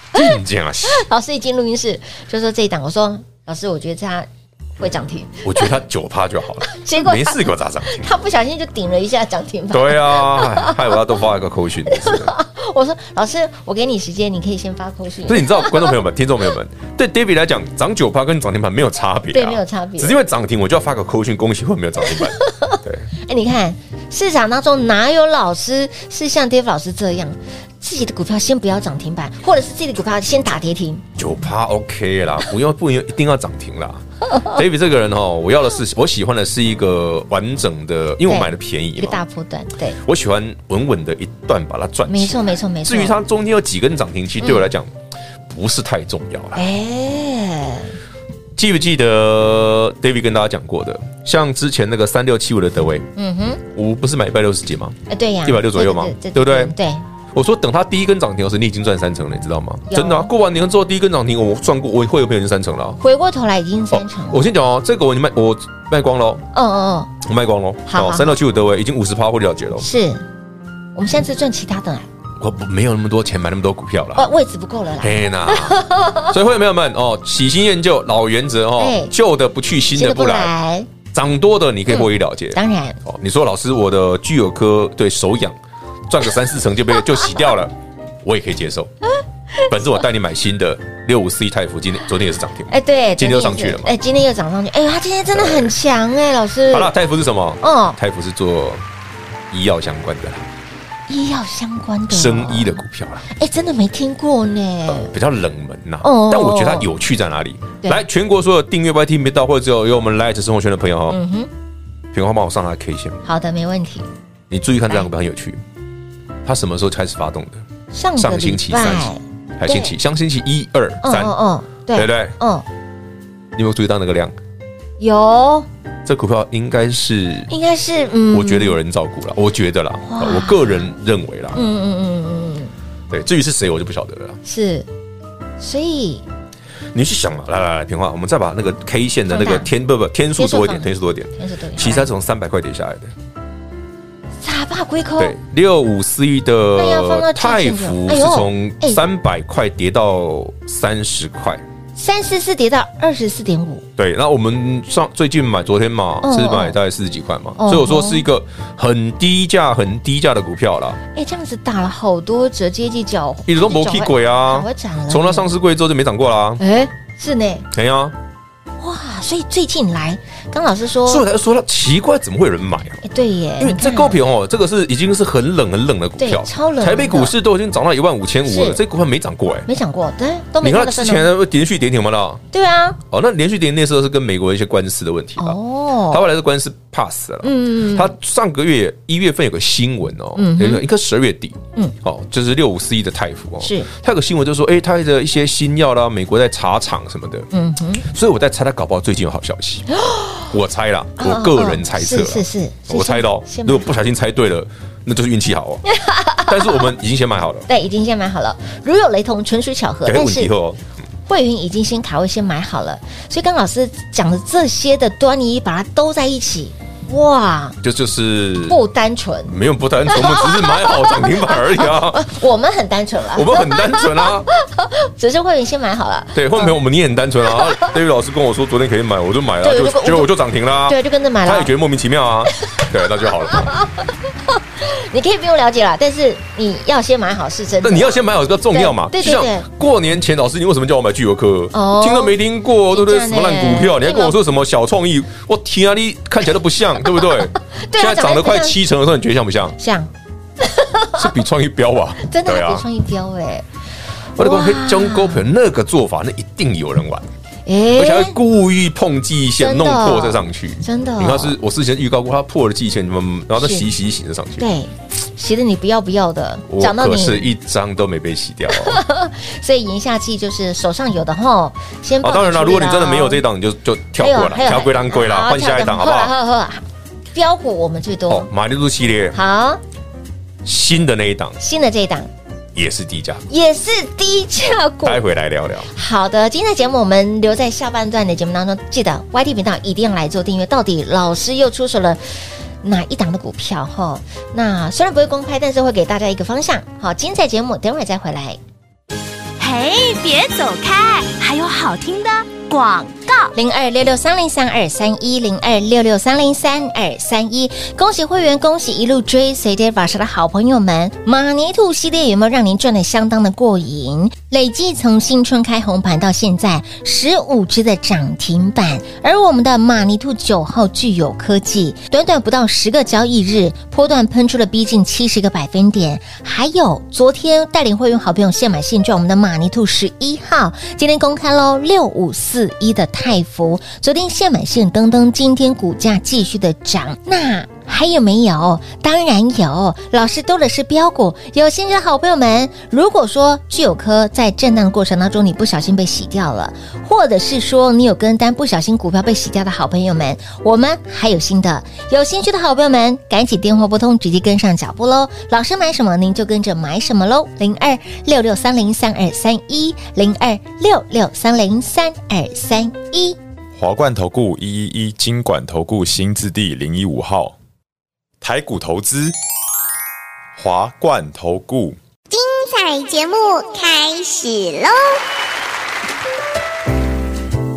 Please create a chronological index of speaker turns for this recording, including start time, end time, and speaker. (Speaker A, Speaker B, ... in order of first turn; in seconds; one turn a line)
Speaker A: 0.1-1.1
Speaker B: 0.9-5.7
Speaker A: 5.4-8.1
Speaker B: 6.7-11.0
Speaker A: 9.7-12.3
Speaker B: 11.8-16.0
Speaker A: 15.2-23.1
Speaker B: 19.3-20.2
Speaker B: 22.0-31.0
Speaker A: 31.2-39.2
Speaker B: 38.2-40.0
Speaker A: 40.0-44.9
Speaker B: 42.1-43.2
Speaker B: 44.4-44.7
Speaker A: 45.5-46.6
Speaker B: 46.5-47.9
Speaker A: 48.5-53.1
Speaker B: 53.1-53.6
Speaker A: 53.7-56.7
Speaker B: 55.1-57.0
Speaker A: 57.3-63.0
Speaker B: 59.9-60.3
Speaker B: 63.0-64.5
Speaker A: 63.9-66.4
Speaker B: 66.5-67.1
Speaker A: 67.2-69.9
Speaker B: 67.9-68.4
Speaker B: 69.8-70.2
Speaker B: 70.9-72.1
Speaker A: 72.4-74.3
Speaker B: 74.2-76.3
Speaker A: 75.0-80.5
Speaker B: 78.8-79.1
Speaker B: 79.9-80.9
Speaker A: 81.1-88.9
Speaker B: 81.9-83.0
Speaker A: 89.7-93.9
Speaker B: 92.7-96.9
Speaker A: 95.3-95.7
Speaker A: 96.7-98.8
Speaker B: 97.6-98.0
Speaker A: 99.5-100.5
Speaker B: 101.1-105.1
Speaker A: 102.1-103.3
Speaker A: 104.9-111.2
Speaker B: 106.0-106.9
Speaker B: 111.1-111.5
Speaker A: 112.1-113.2
Speaker B: 113.2-114.1
Speaker A: 114.5-115.6
Speaker A: 116.4-117.6
Speaker B: 117.9-119.9
Speaker A: 118.2-121.3
Speaker B: 121.0-122.7
Speaker A: 121.9-122.3
Speaker A: 123.5-124.3
Speaker B: 125.0-125.7
Speaker A: 126.0-127.5
Speaker B: 127.5-128.8
Speaker A: 128.3-131.6
Speaker B: 130.1-130.9
Speaker B: 131.5-132.7
Speaker A: 133.1-134.4
Speaker B: 134.4-134.9
Speaker B: 135.6-136.2
Speaker A: 136.9-143.1
Speaker B: 139.3-139.7
Speaker B: 140.3-142.1
Speaker B: 144.4-145.3
Speaker A: 145.2-151.6
Speaker B: 146.7-149.0
Speaker B: 151.9-153.8
Speaker A: 154.0-161.0
Speaker B: 156.2-156.8
Speaker B: 157.6-158.2
Speaker B: 161.1-165.5
Speaker A: 163.5-166.6
Speaker B: 166.6-167.7
Speaker A: 167.7-168.1
Speaker B: 168.8-171.2
Speaker A: 171.0-173.0
Speaker B: 173.0-174.2
Speaker A: 173.6-179.7
Speaker B: 176.2-177.3
Speaker B: 178.4-178.8
Speaker B: 179.7-181.3
Speaker A: 180.6-182.4
Speaker B: 182.5-183.0
Speaker A: 183.1-197.5
Speaker B: 185.4-186.2
Speaker B: 187.4-188.1
Speaker B: 190.3-190.8
Speaker B: 193.6-193.9
Speaker B: 197.5-198.1
Speaker A: 198.0-199.9
Speaker B: 199.9-200.5
Speaker A: 200.5-205.8
Speaker B: 201.2-203.9
Speaker B: 205.8-206.9
Speaker A: 206.4-207.7
Speaker B: 207.7-210.5
Speaker A: 210.1-210.8
Speaker B: 211.3-217.8
Speaker A: 217.8-218.8
Speaker B: 218.7-219.5
Speaker A: 219.5-222.2
Speaker B: 220.1-226.8
Speaker A: 223.3-224.5
Speaker A: 226.3-233.7
Speaker B: 227.5-227.9
Speaker B: 229.6-230.3
Speaker B: 230.8-231.7
Speaker B: 232.6-239.7
Speaker A: 237.8-249.8
Speaker B: 241.7-242.4
Speaker B: 242.9-244.4
Speaker B: 247.1-248.8
Speaker B: 249.8-251.3
Speaker A: 251.1-252.8
Speaker B: 252.2-253.7
Speaker A: 254.3-257.3
Speaker B: 254.4-255.5
Speaker B: 257.6-258.4
Speaker A: 257.9-264.6
Speaker B: 259.6-261.6
Speaker B: 263.6-263.9
Speaker B: 264.6-267.5
Speaker A: 266.7-269.0
Speaker B: 268.7-273.4
Speaker A: 272.2-276.3
Speaker B: 274.2-276.8
Speaker B: 277.3-278.5
Speaker A: 278.3-279.4
Speaker B: 279.3-279.8
Speaker A: 280.6-281.6
Speaker B: 281.6-282.3
Speaker A: 282.7-283.4
Speaker B: 283.5-285.2
Speaker A: 285.0-285.9
Speaker B: 285.9-298.6
Speaker C: 299.6-303.5
Speaker B: 303.5-363.4
Speaker D: 363.8-367.6
Speaker D: 368.4-369.3
Speaker D: 370.6-372.0
Speaker E: 372.3-375.2